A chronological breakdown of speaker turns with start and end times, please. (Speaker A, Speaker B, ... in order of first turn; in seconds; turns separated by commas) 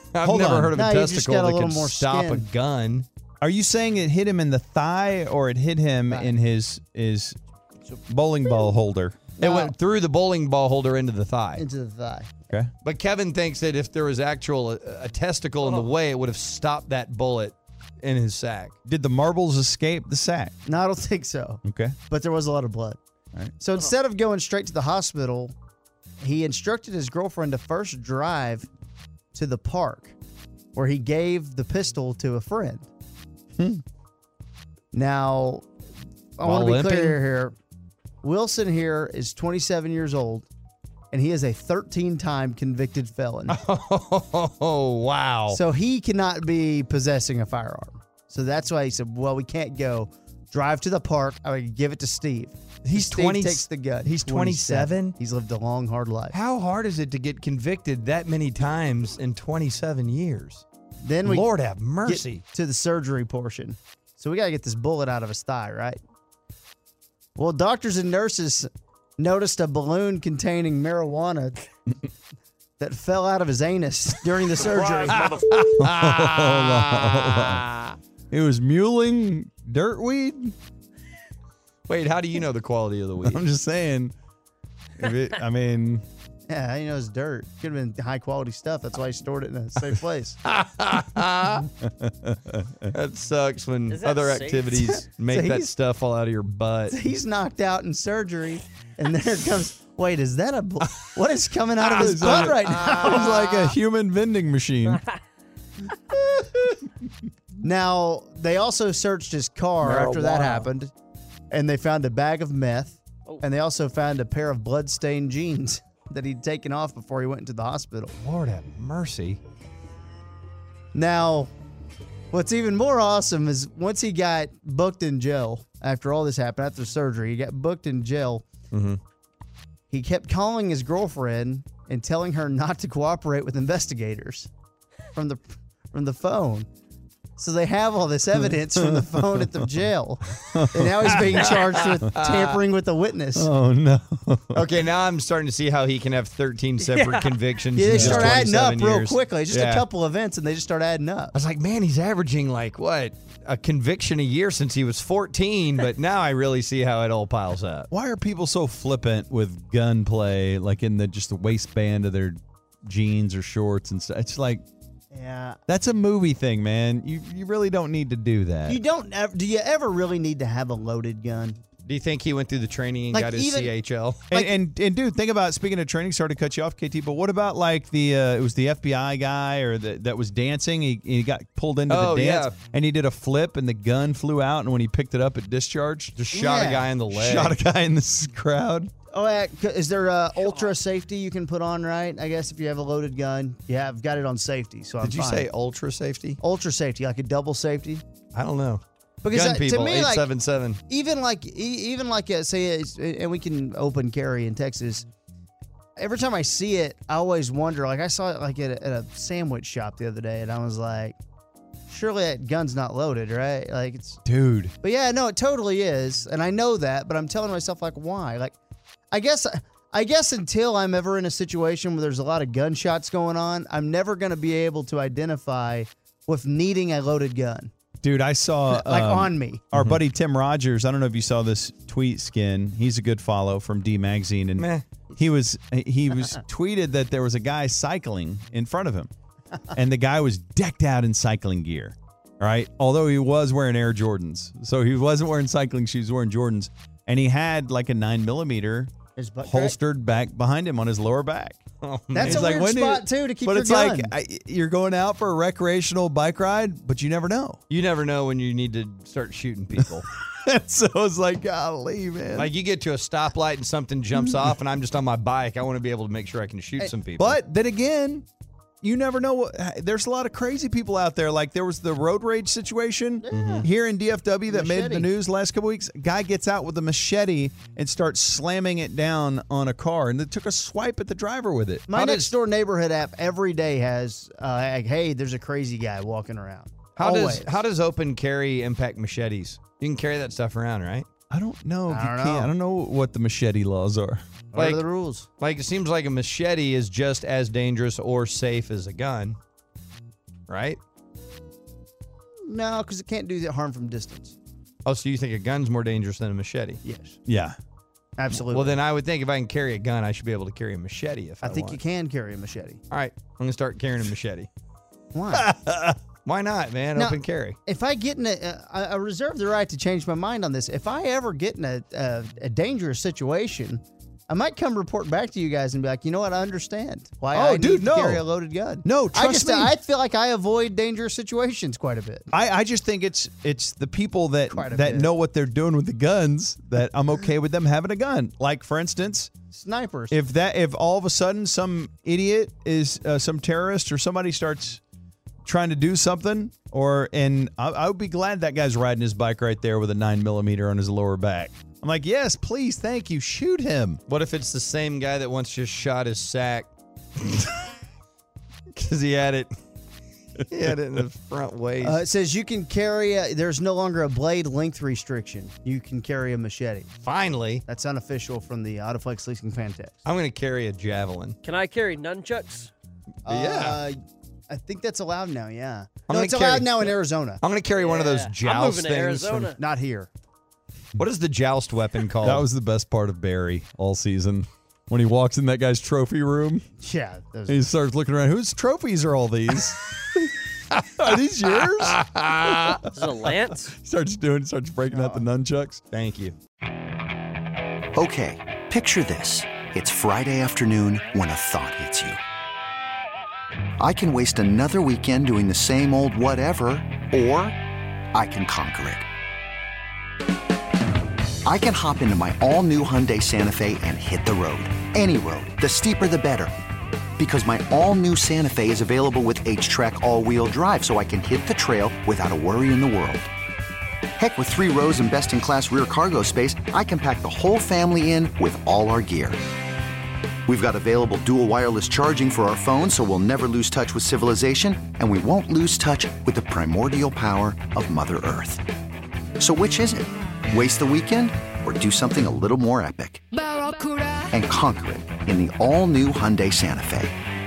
Speaker A: 0.1-3.0, Speaker B: 0.2-0.8, Speaker C: 0.7-2.5, Speaker B: 3.4-7.4, Speaker C: 6.1-6.3, Speaker B: 8.1-9.3, Speaker C: 9.4-9.7, Speaker A: 9.4-11.6, Speaker C: 11.5-12.5, Speaker A: 12.8-18.7, Speaker B: 18.8-20.5, Speaker C: 20.6-23.0, Speaker B: 21.6-21.9, Speaker C: 23.6-25.5, Speaker C: 26.2-28.7, Speaker C: 29.3-30.1, Speaker C: 30.7-32.9, Speaker C: 34.9-35.7, Speaker C: 36.4-37.5, Speaker A: 36.4-37.2, Speaker C: 38.2-40.5, Speaker C: 41.1-43.6, Speaker A: 43.5-45.6, Speaker C: 45.5-56.4, Speaker A: 52.9-55.1, Speaker A: 56.3-60.6, Speaker C: 61.0-61.5, Speaker A: 61.2-62.4, Speaker C: 62.0-66.0, Speaker C: 67.3-71.6, Speaker C: 72.8-75.3, Speaker A: 75.1-78.0, Speaker B: 75.8-77.7, Speaker B: 78.3-80.5, Speaker A: 81.9-83.4, Speaker B: 83.2-84.1, Speaker B: 85.0-86.0, Speaker C: 86.5-90.4, Speaker A: 90.5-91.7, Speaker B: 91.8-92.8, Speaker A: 92.9-97.0, Speaker D: 93.9-94.7, Speaker C: 94.8-95.7, Speaker C: 96.9-103.8, Speaker B: 101.8-105.0, Speaker A: 101.9-103.1, Speaker B: 106.1-106.8, Speaker C: 107.6-110.9, Speaker A: 109.8-110.7, Speaker C: 111.5-118.2, Speaker A: 118.2-119.4, Speaker C: 120.9-121.5, Speaker C: 122.3-128.4, Speaker A: 128.7-129.0, Speaker C: 129.9-134.5, Speaker C: 135.1-136.7, Speaker C: 137.4-143.5, Speaker B: 138.4-139.7, Speaker B: 140.4-141.6, Speaker A: 141.4-142.6, Speaker B: 143.3-144.7, Speaker A: 144.5-149.8, Speaker C: 147.7-151.3, Speaker B: 147.9-148.4, Speaker A: 151.3-157.9, Speaker B: 157.9-164.6, Speaker C: 165.1-165.6, Speaker B: 165.7-168.8, Speaker C: 168.7-171.6, Speaker A: 171.8-174.2, Speaker C: 173.1-173.7, Speaker B: 174.3-186.2, Speaker A: 181.9-182.5, Speaker A: 186.1-187.6, Speaker C: 186.3-186.9, Speaker B: 187.1-188.9, Speaker C: 189.1-195.5, Speaker A: 195.0-196.4, Speaker C: 196.4-198.0, Speaker A: 198.3-200.8, Speaker C: 199.2-200.3, Speaker C: 200.9-205.1, Speaker C: 206.0-211.2, Speaker C: 211.9-214.2, Speaker B: 214.2-214.7, Speaker C: 214.8-218.5, Speaker C: 219.1-227.7, Speaker B: 228.0-239.1, Speaker C: 228.7-229.7, Speaker A: 234.6-234.8, Speaker B: 239.7-251.6, Speaker C: 249.2-249.8, Speaker A: 251.8-252.5, Speaker C: 252.1-254.1, Speaker B: 252.1-257.6, Speaker A: 257.7-260.1, Speaker B: 260.0-262.5, Speaker A: 262.3-267.4, Speaker B: 264.1-264.5, Speaker B: 267.2-268.2, Speaker B: 268.8-281.9, Speaker C: 273.2-273.7, Speaker A: 273.3-273.7, Speaker C: 274.5-275.1, Speaker C: 281.9-287.5, Speaker A: 281.9-282.3, Speaker A: 287.0-291.1, Speaker B: 291.3-294.2, Speaker C: 291.9-292.5, Speaker C: 294.5-295.3, Speaker A: 294.5-294.8, Speaker A: 295.4-299.4, Speaker A: 300.5-300.8, Speaker C: 302.4-304.3, Speaker A: 304.8-306.8, Speaker C: 306.8-307.2, Speaker B: 307.2-307.6, Speaker C: 308.2-308.8, Speaker A: 308.3-311.8, Speaker C: 311.4-312.8, Speaker A: 312.9-314.5, Speaker C: 315.1-315.5, Speaker B: 315.3-316.0, Speaker A: 316.2-317.6, Speaker C: 316.9-332.3, Speaker B: 327.3-328.2, Speaker B: 328.8-329.7, Speaker B: 332.3-339.3, Speaker C: 334.5-335.1, Speaker C: 339.5-340.2, Speaker B: 340.1-344.8, Speaker B: 345.4-354.0, Speaker A: 354.1-357.6, Speaker A: 358.7-359.5, Speaker A: 360.5-362.0, Speaker C: 361.8-366.9, Speaker A: 367.0-367.6, Speaker C: 367.6-369.9, Speaker A: 370.0-371.4, Speaker D: 371.4-372.7, Speaker A: 373.2-373.8, Speaker C: 373.2-374.0, Speaker C: 374.5-377.4, Speaker A: 376.1-379.6, Speaker D: 377.7-379.6, Speaker C: 379.6-380.1, Speaker A: 381.0-382.4, Speaker B: 382.2-386.6, Speaker C: 386.8-387.7, Speaker B: 387.5-395.8, Speaker A: 391.8-392.8, Speaker D: 392.9-393.7, Speaker C: 394.9-395.2, Speaker A: 395.9-396.3, Speaker E: 397.9-402.2, Speaker E: 403.8-407.6, Speaker E: 408.1-409.0, Speaker E: 411.4-416.5, Speaker E: 417.2-423.3, Speaker E: 424.2-429.4, Speaker E: 430.5-438.6, Speaker E: 439.4-443.2, Speaker E: 444.3-447.1